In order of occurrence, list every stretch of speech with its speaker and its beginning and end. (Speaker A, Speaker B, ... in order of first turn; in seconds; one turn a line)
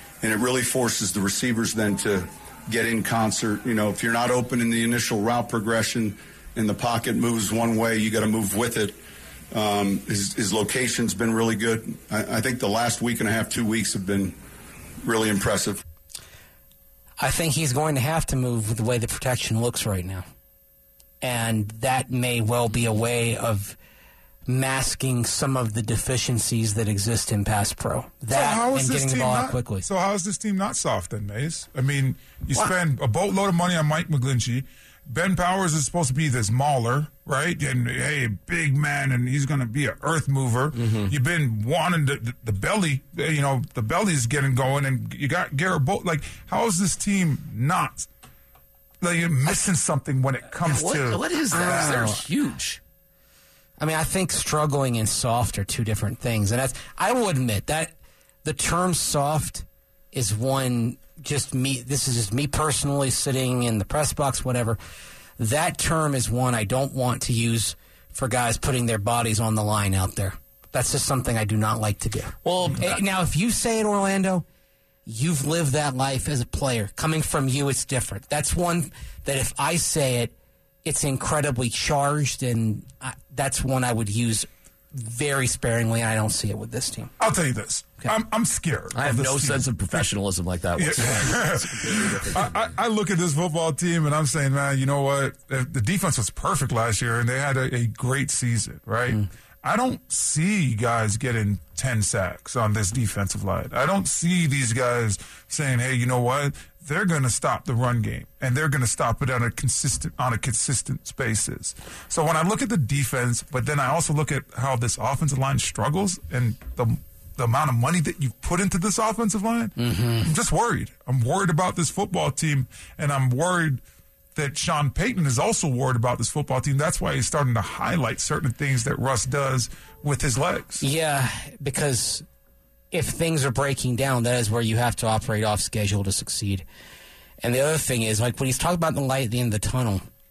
Speaker A: 0.2-8.9
Speaker A: 9.5-14.3
Speaker A: 15.0-15.8
Speaker B: 17.2-20.2
Speaker B: 21.2-23.8
Speaker B: 24.5-29.9
Speaker C: 28.3-48.1
Speaker D: 40.7-41.1
Speaker C: 49.0-52.0
Speaker D: 50.6-52.8
Speaker B: 51.5-52.2
Speaker B: 53.8-64.8
Speaker B: 65.4-74.4
Speaker D: 72.4-73.0
Speaker B: 75.0-80.3
Speaker B: 80.8-87.1
Speaker C: 87.2-90.0
Speaker D: 88.9-92.5
Speaker C: 90.8-123.8
Speaker B: 119.8-120.3
Speaker C: 124.3-130.8
Speaker B: 130.8-132.2
Speaker B: 132.9-136.6
Speaker B: 137.4-140.0